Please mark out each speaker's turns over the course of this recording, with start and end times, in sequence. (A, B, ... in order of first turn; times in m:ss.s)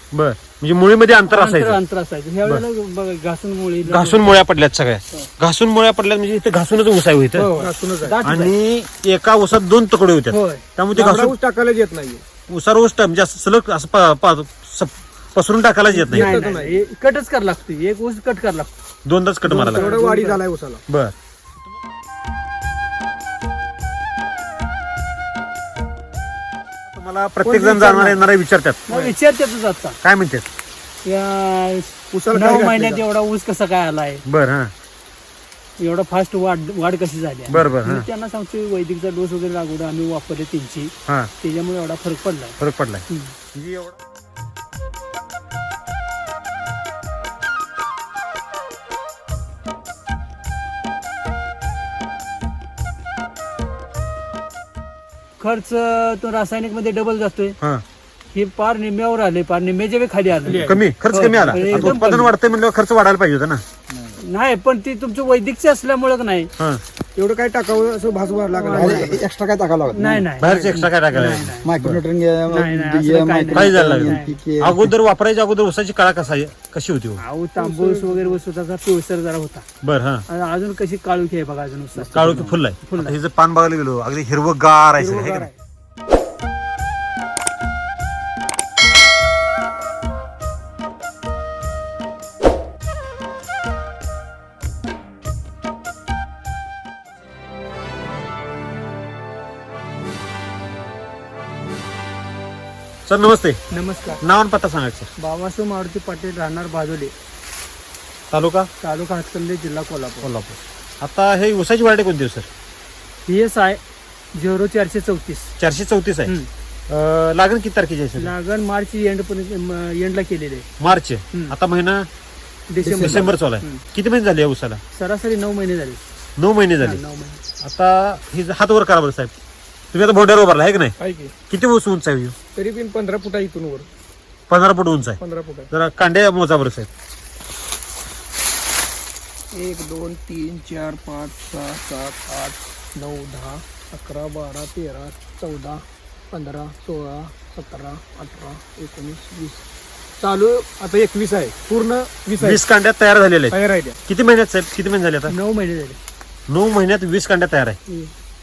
0:00.1-0:01.8 A
0:01.3-0:04.3 B
0:03.8-0:07.5 A
0:07.4-0:08.2 C
0:07.6-0:08.5 B
0:08.2-0:11.3 A
0:10.3-0:10.6 B
0:10.9-0:12.2 C
0:12.5-0:16.3 A
0:15.9-0:16.8 C
0:16.1-0:18.7 B
0:19.0-0:20.0 A
0:19.5-0:20.4 B
0:19.5-0:20.8 C
0:20.9-0:21.1 A
0:26.9-0:28.8 A
0:27.4-0:28.2 C
0:28.9-0:30.0 B
0:28.9-0:29.1 C
0:30.0-0:30.5 A
0:31.0-0:34.2 B
0:32.1-0:33.0 C
0:34.2-0:34.7 A
0:35.8-0:42.6 B
0:37.5-0:38.1 A
0:42.6-0:43.0 A
0:43.1-0:43.3 B
0:43.5-0:44.0 A
0:55.4-0:57.6 B
0:58.3-1:02.3 B
1:00.4-1:00.8 C
1:00.6-1:03.6 A
1:01.5-1:01.9 C
1:03.9-1:04.2 D
1:04.2-1:06.5 B
1:07.2-1:09.2 C
1:08.5-1:09.2 B
1:08.7-1:10.2 D
1:09.9-1:11.6 B
1:10.4-1:12.0 A
1:11.6-1:14.9 D
1:12.5-1:14.4 B
1:13.5-1:17.2 A
1:17.2-1:19.6 B
1:17.6-1:18.4 C
1:19.8-1:20.2 A
1:20.3-1:23.2 B
1:22.1-1:25.5 A
1:25.0-1:25.5 C
1:43.0-1:43.6 A
1:43.7-1:44.2 B
1:44.2-1:45.1 A
1:45.2-1:47.1 B
1:48.3-1:48.7 A
1:48.8-1:50.3 B
1:50.2-1:52.5 A
1:53.2-1:53.8 B
1:54.3-1:55.5 B
1:55.6-1:56.3 A
1:56.9-1:58.3 A
1:58.2-2:00.7 B
2:00.8-2:02.1 A
2:02.7-2:03.8 B
2:02.8-2:03.3 D
2:03.0-2:04.8 A
2:04.9-2:06.0 B
2:06.4-2:07.0 A
2:06.8-2:07.4 B
2:07.6-2:09.3 A
2:09.9-2:10.9 A
2:11.0-2:11.3 C
2:11.5-2:12.3 A
2:12.6-2:13.9 C
2:14.5-2:15.2 A
2:15.2-2:15.7 C
2:15.7-2:16.9 A
2:19.5-2:25.8 C
2:26.3-2:29.6 C
2:30.2-2:32.6 C
2:32.4-2:35.3 A
2:33.5-2:34.0 C
2:35.3-2:36.0 B
2:36.5-2:37.8 A
2:37.9-2:38.1 B